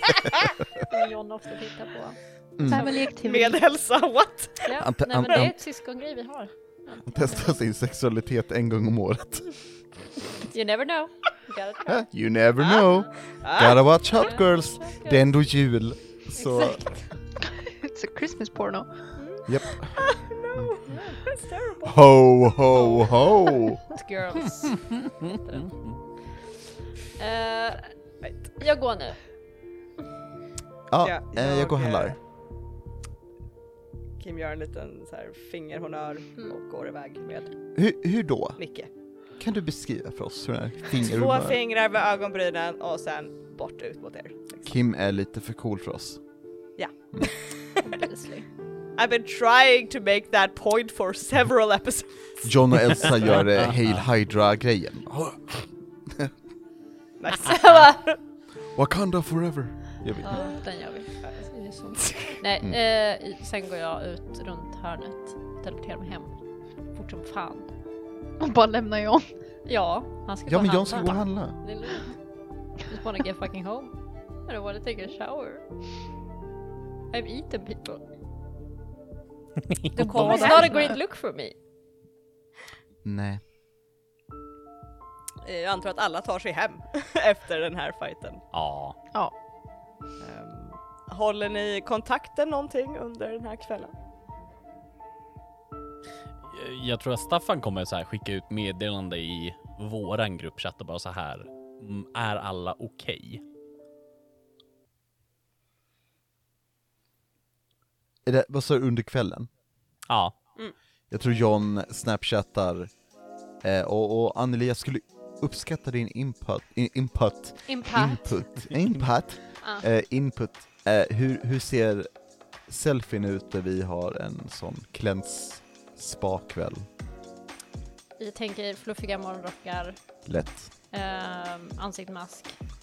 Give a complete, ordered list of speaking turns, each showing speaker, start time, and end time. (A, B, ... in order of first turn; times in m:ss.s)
0:00.9-0:03.0 A
0:02.5-0:02.9 B
0:02.6-0:03.6 C
0:03.0-0:05.4 D
0:04.6-0:07.5 A
0:04.8-0:05.6 B
0:07.0-0:09.9 B
0:10.5-0:12.1 A
0:11.9-0:17.1 B
0:12.7-0:13.9 D
0:12.8-0:13.1 A
0:14.1-0:15.2 A
0:16.4-0:17.1 A
0:17.5-0:19.4 C
0:19.1-0:19.6 A
0:19.4-0:20.6 B
0:19.9-0:22.0 D
0:21.9-0:23.8 B
0:22.7-0:26.4 A
0:25.6-0:26.0 E
0:27.2-0:29.6 A
0:28.2-0:28.6 D
0:30.9-0:32.2 B
0:31.0-0:32.2 D
0:34.2-0:37.6 D
0:37.7-0:41.6 B
0:38.6-0:38.9 D
0:41.0-0:44.8 D
0:44.6-0:46.4 B
0:46.8-0:47.7 D
0:47.8-0:48.5 A
0:48.9-0:53.1 D
0:52.4-0:56.3 B
0:53.6-0:53.9 E
0:57.2-0:58.2 D
0:57.4-0:58.0 A
0:58.7-1:00.6 B
1:00.2-1:07.7 A
1:01.2-1:02.4 D
1:08.4-1:09.4 C
1:09.6-1:16.0 A
1:10.5-1:11.6 B
1:17.1-1:18.0 A
1:19.9-1:20.7 E
1:20.0-1:21.0 C
1:20.0-1:21.6 A
1:20.3-1:20.7 D
1:23.0-1:23.4 B
1:25.4-1:28.4 D
1:28.5-1:29.0 E
1:30.2-1:33.9 D
1:36.4-1:43.4 E
1:48.2-1:49.5 B
1:50.1-1:50.3 E
1:51.1-1:52.9 B
1:53.6-2:06.9 B
1:57.6-1:58.5 A
1:59.6-1:59.8 A
2:08.2-2:12.6 A
2:10.2-2:10.7 B